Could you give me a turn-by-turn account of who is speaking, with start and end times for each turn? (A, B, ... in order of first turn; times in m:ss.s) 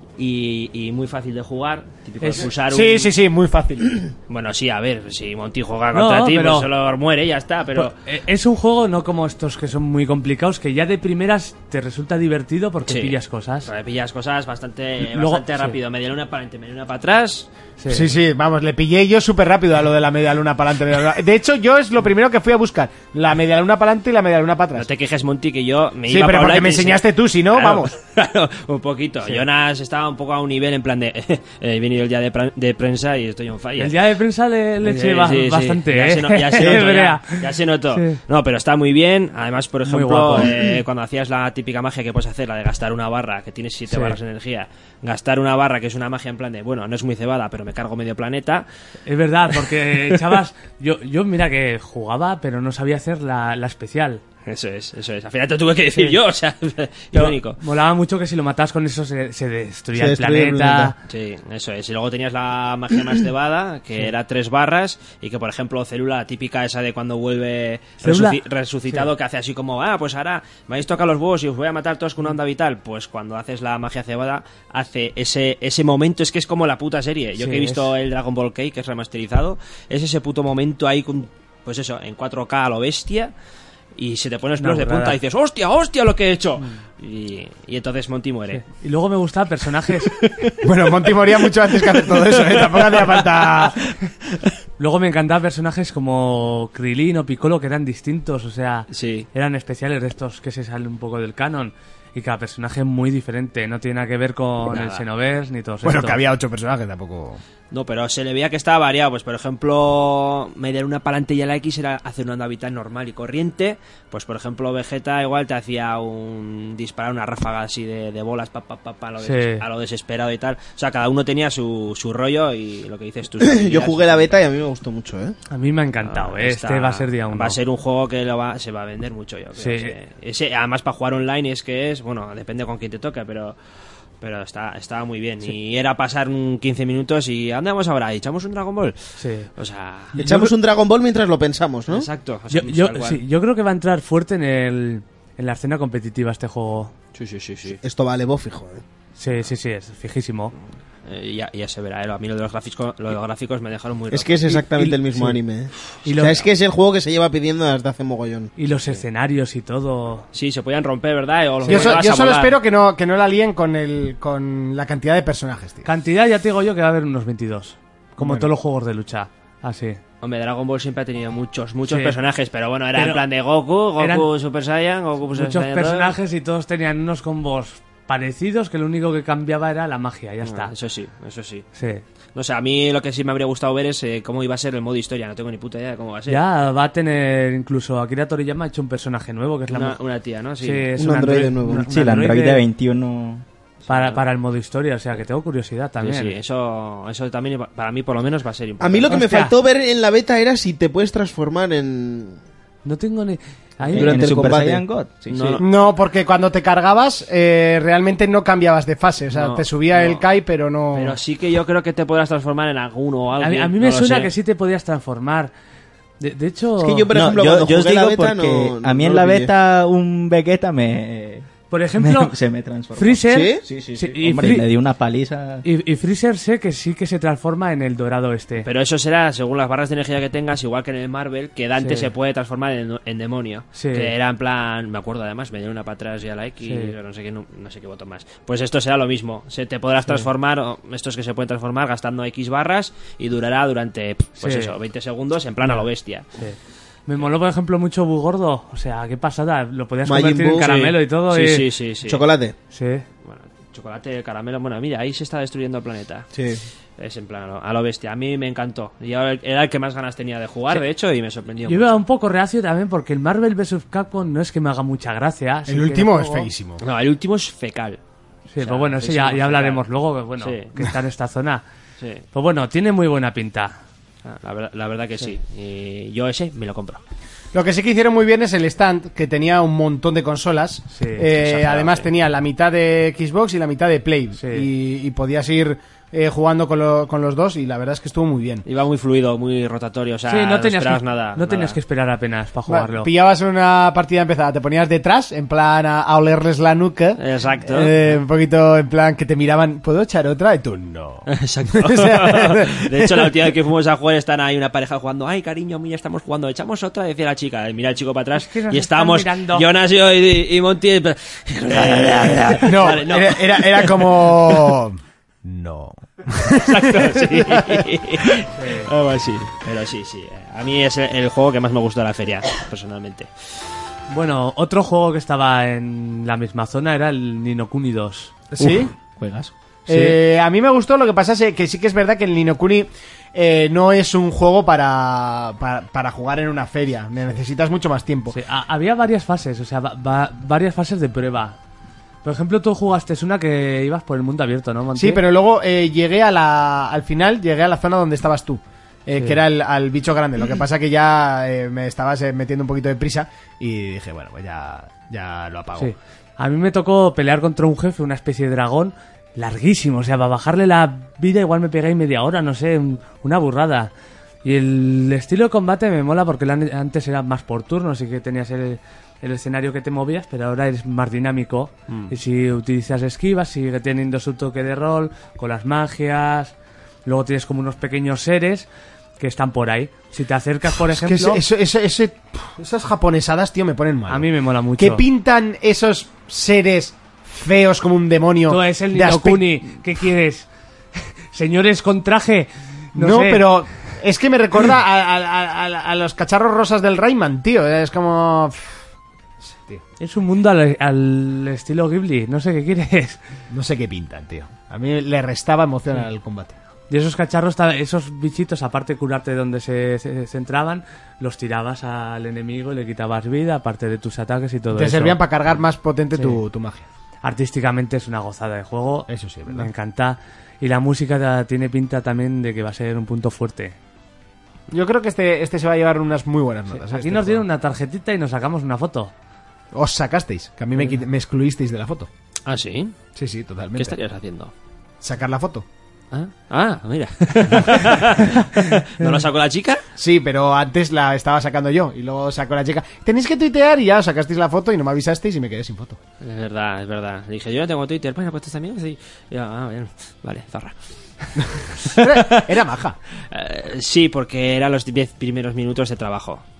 0:00.2-0:03.1 A
0:02.2-0:02.5 B
0:02.7-0:04.1 C
0:04.3-0:08.0 A
0:05.9-0:06.7 B
0:07.8-0:13.7 B
0:12.8-0:17.5 A
0:15.1-0:15.8 B
0:17.8-0:18.1 B
0:17.9-0:24.9 C
0:24.8-0:34.0 A
0:26.1-0:28.0 C
0:33.8-0:38.2 B
0:34.8-0:48.7 A
0:39.9-0:40.5 B
0:43.9-0:44.2 B
0:49.1-0:54.2 B
0:54.4-0:57.6 A
0:57.1-1:01.0 B
1:00.0-1:00.9 D
1:01.1-1:23.3 A
1:08.0-1:08.4 B
1:17.4-1:17.9 B
1:24.0-1:28.6 A
1:24.6-1:25.2 B
1:28.5-1:30.2 B
1:30.6-1:33.8 C
1:34.8-1:46.2 B
1:38.9-1:39.3 A
1:44.7-1:45.0 A
1:45.8-1:47.4 C
1:47.7-2:04.4 A
1:59.2-1:59.6 B
2:03.4-2:05.4 D
2:05.5-2:07.6 B
2:06.1-2:13.6 A
2:09.6-2:09.9 B
2:14.2-2:19.0 A
2:19.2-2:19.5 B
2:19.6-2:20.1 A
2:20.2-2:20.5 B
2:20.2-2:22.1 D
2:21.9-2:23.2 A
2:22.5-2:26.9 B
2:27.1-2:27.8 A
2:27.8-2:28.8 D
2:29.2-2:30.5 B
2:31.1-2:34.6 A
2:34.1-2:38.5 D
2:34.5-2:35.4 B
2:36.0-2:36.5 B
2:38.6-2:40.3 B
2:40.3-2:42.6 A
2:41.6-2:42.0 B
2:41.7-2:45.9 C
2:45.8-2:50.0 B
2:48.2-2:48.5 C
2:50.2-2:56.1 A
2:51.9-2:52.1 B
2:53.0-2:53.2 B
2:54.0-2:54.3 B
2:55.4-3:00.7 B
3:00.4-3:01.7 A
3:01.8-3:02.0 B
3:02.4-3:06.4 A
3:06.3-3:10.0 B
3:09.7-3:10.9 A
3:10.6-3:12.6 B
3:11.0-3:11.9 D
3:11.8-3:13.4 E
3:13.9-3:14.2 A
3:13.9-3:16.4 B
3:16.0-3:19.2 A
3:18.8-3:22.4 D
3:19.1-3:19.5 B
3:22.8-3:24.2 B
3:23.9-3:24.8 D
3:23.9-3:25.6 E
3:25.3-3:25.6 A
3:25.6-3:31.2 C
3:29.3-3:30.2 A
3:30.9-3:34.3 A
3:33.4-3:35.5 B
3:36.2-3:37.1 B
3:36.8-3:39.5 D
3:37.1-3:43.5 E
3:41.7-3:42.4 B
3:43.0-3:44.7 B
3:43.3-3:44.1 D
3:44.1-3:45.6 E
3:45.6-3:48.7 B
3:48.6-4:06.3 A
3:51.8-3:52.1 B
3:53.8-3:54.1 B
3:56.6-3:56.9 B
4:04.4-4:04.7 B
4:06.4-4:11.6 B
4:10.1-4:11.0 D
4:11.3-4:12.2 A
4:12.1-4:12.6 D
4:12.7-4:13.1 B
4:13.2-4:16.3 A
4:16.3-4:16.6 D
4:17.0-4:22.0 A
4:21.7-4:26.5 B
4:25.7-4:26.8 C
4:26.8-4:28.0 A
4:28.5-4:31.6 B
4:28.6-4:29.8 A
4:30.4-4:30.7 A
4:32.0-4:32.2 A
4:32.3-4:33.8 B
4:34.2-4:37.0 A
4:37.5-4:48.7 C
4:40.9-4:41.3 B
4:41.3-4:42.1 A
4:44.4-4:44.7 B
4:48.7-4:51.8 A
4:50.3-4:53.1 B
4:52.7-5:03.2 C
4:57.2-4:57.9 A
5:01.3-5:14.7 A
5:08.4-5:09.7 B
5:12.5-5:18.4 C
5:16.6-5:23.3 A
5:18.5-5:18.9 B
5:24.1-5:28.5 B
5:28.5-5:28.9 C
5:29.2-5:29.5 E
5:29.9-5:38.4 C
5:29.9-5:30.2 B
5:38.3-5:41.6 B
5:42.2-5:45.2 B
5:45.0-5:55.9 C
5:49.1-5:49.4 B
5:55.8-6:03.9 B
6:04.4-6:16.5 B
6:17.1-6:18.7 B
6:19.2-6:21.4 B
6:20.9-6:29.8 C
6:24.1-6:25.0 B
6:28.5-6:30.5 B
6:31.3-6:33.5 B
6:33.0-6:38.8 C
6:39.4-6:39.8 C
6:40.0-6:43.2 B
6:43.5-6:46.6 C
6:46.9-6:55.2 B
6:54.7-6:56.9 C
6:57.2-7:03.8 B
6:59.1-6:59.7 C
7:04.7-7:07.4 C
7:06.7-7:09.1 B
7:09.7-7:12.1 C
7:12.4-7:13.0 A
7:13.1-7:14.0 C
7:13.8-7:14.5 A
7:15.0-7:15.6 C
7:16.1-7:19.8 A
7:20.0-7:26.0 C
7:26.2-7:32.5 A
7:31.4-7:33.0 C
7:33.3-7:36.4 A